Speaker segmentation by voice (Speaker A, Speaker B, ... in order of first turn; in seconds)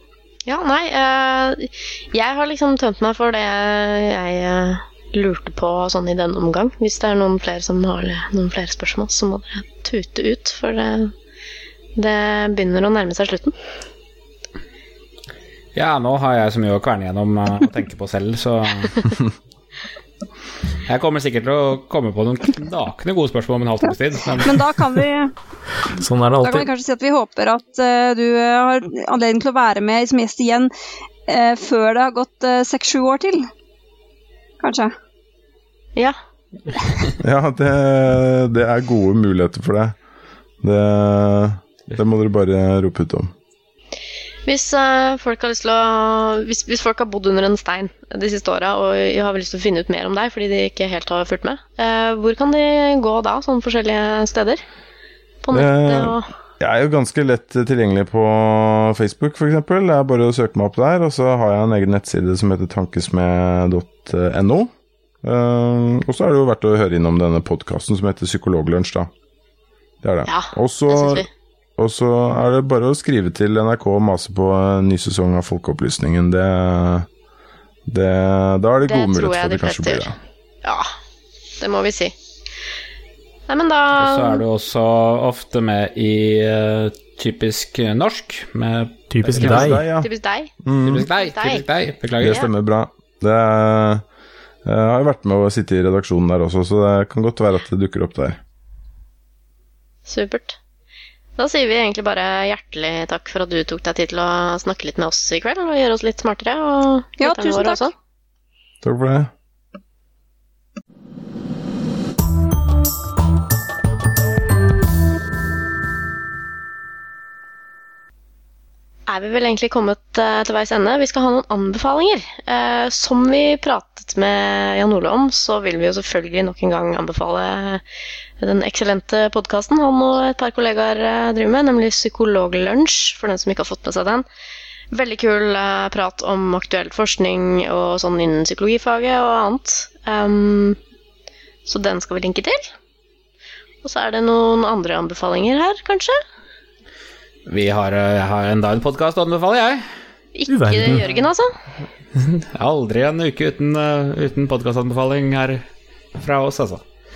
Speaker A: 0.5-11.1, 11.9-13.6, 44.5-54.6, 55.4-56.3, 70.2-71.3, 78.9-80.1, 80.6-80.9, 81.6-82.1, 83.5-84.4, 90.0-90.5, 91.1-91.6, 100.0-100.6, 101.4-107.9, 119.1-127.8, 128.4-134.2, 134.9-140.8, 141.7-142.7, 143.8-146.2, 150.3-151.5
Speaker B: 15.7-19.2, 20.9-24.8, 84.0-89.8, 90.8-92.5, 147.4-149.9, 152.2-155.6, 156.2-156.8
Speaker C: 23.9-25.3, 26.4-30.7, 31.3-33.5, 34.6-34.9, 107.2-107.9
Speaker D: 26.0-26.7, 89.1-89.8, 150.5-151.0
Speaker E: 37.2-40.0, 40.6-43.3, 55.5-64.7, 65.2-69.1, 70.0-71.2, 71.8-77.1, 77.8-80.2, 89.4-90.1, 90.6-91.1, 92.2-94.0, 94.6-98.4, 108.8-109.3